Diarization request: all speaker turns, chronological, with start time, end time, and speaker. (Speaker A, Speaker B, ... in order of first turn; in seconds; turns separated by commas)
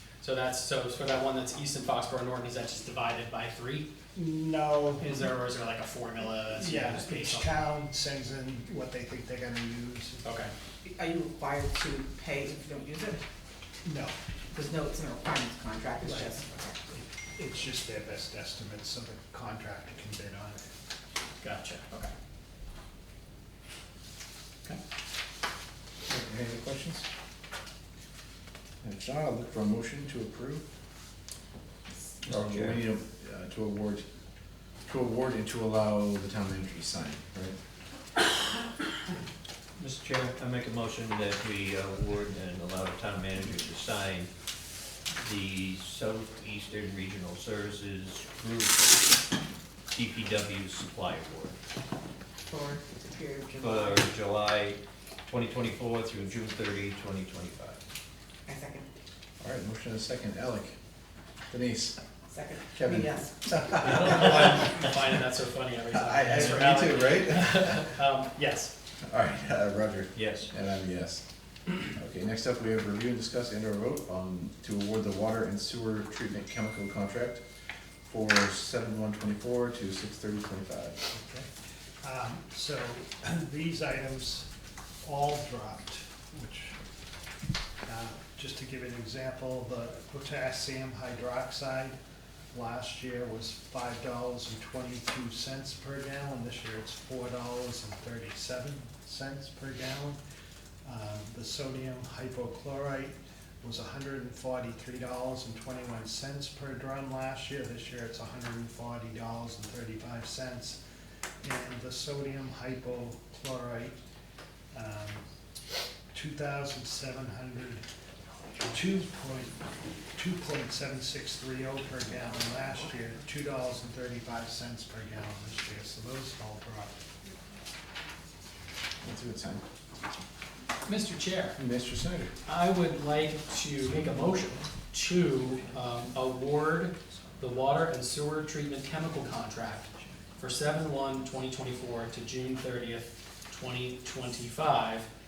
Speaker A: 0.2-3.9, Speaker B: 4.1-5.1, Speaker A: 5.0-7.5, Speaker B: 6.6-10.2, Speaker A: 10.2-10.5, Speaker C: 10.8-13.2, Speaker B: 13.8-14.1, Speaker C: 14.5-16.8, Speaker B: 16.0-20.6, Speaker A: 21.4-22.1, Speaker D: 26.1-27.1, Speaker D: 28.8-30.6, Speaker D: 32.2-34.0, Speaker E: 32.2-32.8, Speaker D: 34.9-37.6, Speaker A: 39.8-40.3, Speaker E: 40.3-44.3, Speaker E: 45.2-49.0, Speaker E: 49.9-51.6, Speaker C: 52.5-54.0, Speaker E: 53.6-57.8, Speaker C: 58.5-58.9, Speaker D: 59.4-60.8, Speaker D: 61.5-62.0, Speaker C: 62.3-63.3, Speaker D: 62.7-64.8, Speaker A: 63.7-68.7, Speaker D: 65.9-67.8, Speaker D: 69.0-71.2, Speaker E: 70.2-70.5, Speaker D: 71.8-77.4, Speaker D: 78.1-81.0, Speaker B: 81.1-81.5, Speaker B: 82.0-84.5, Speaker B: 85.0-86.8, Speaker B: 87.8-92.0, Speaker B: 92.5-100.2, Speaker B: 100.8-110.8, Speaker B: 111.4-114.0, Speaker B: 114.7-115.2, Speaker B: 116.1-117.9, Speaker B: 118.7-119.6, Speaker B: 120.2-127.0, Speaker D: 129.0-129.6, Speaker A: 130.9-131.6, Speaker D: 131.6-132.3, Speaker A: 132.4-145.1